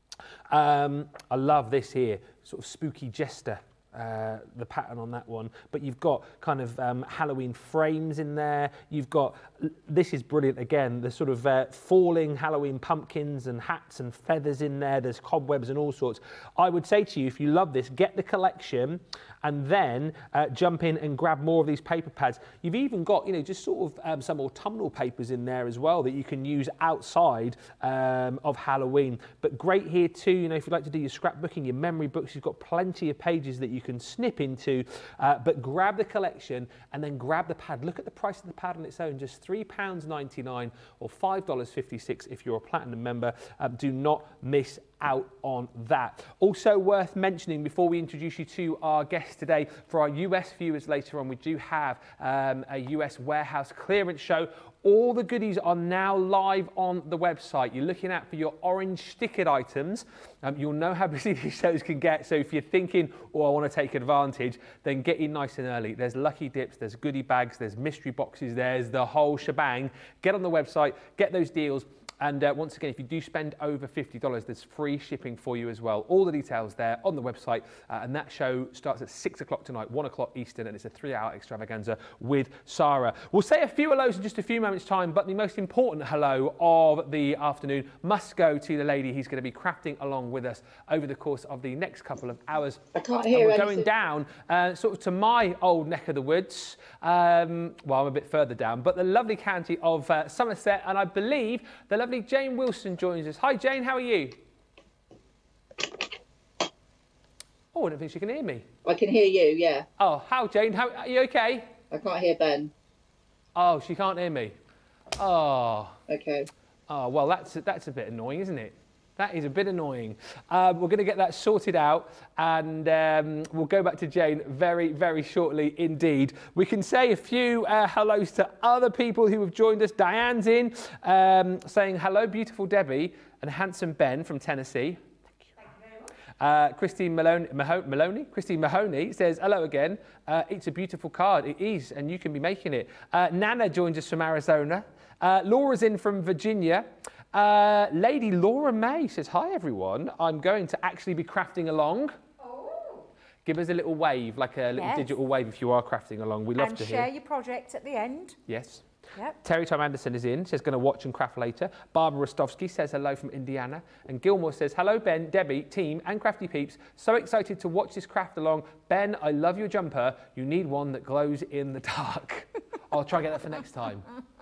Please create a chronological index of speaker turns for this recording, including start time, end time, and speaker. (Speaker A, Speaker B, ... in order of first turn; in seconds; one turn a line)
Speaker A: 0.5-104.4
Speaker B: 92.9-93.9
Speaker A: 107.7-108.7
Speaker B: 108.8-109.9
Speaker A: 110.0-111.8
Speaker B: 111.9-112.7
Speaker A: 113.5-114.6
Speaker A: 115.2-116.0
Speaker B: 116.1-116.5
Speaker A: 116.9-135.5
Speaker A: 136.4-152.2
Speaker C: 152.4-153.1
Speaker A: 153.4-157.1
Speaker C: 154.8-155.1
Speaker C: 156.6-158.4
Speaker A: 158.5-158.8
Speaker A: 159.4-174.1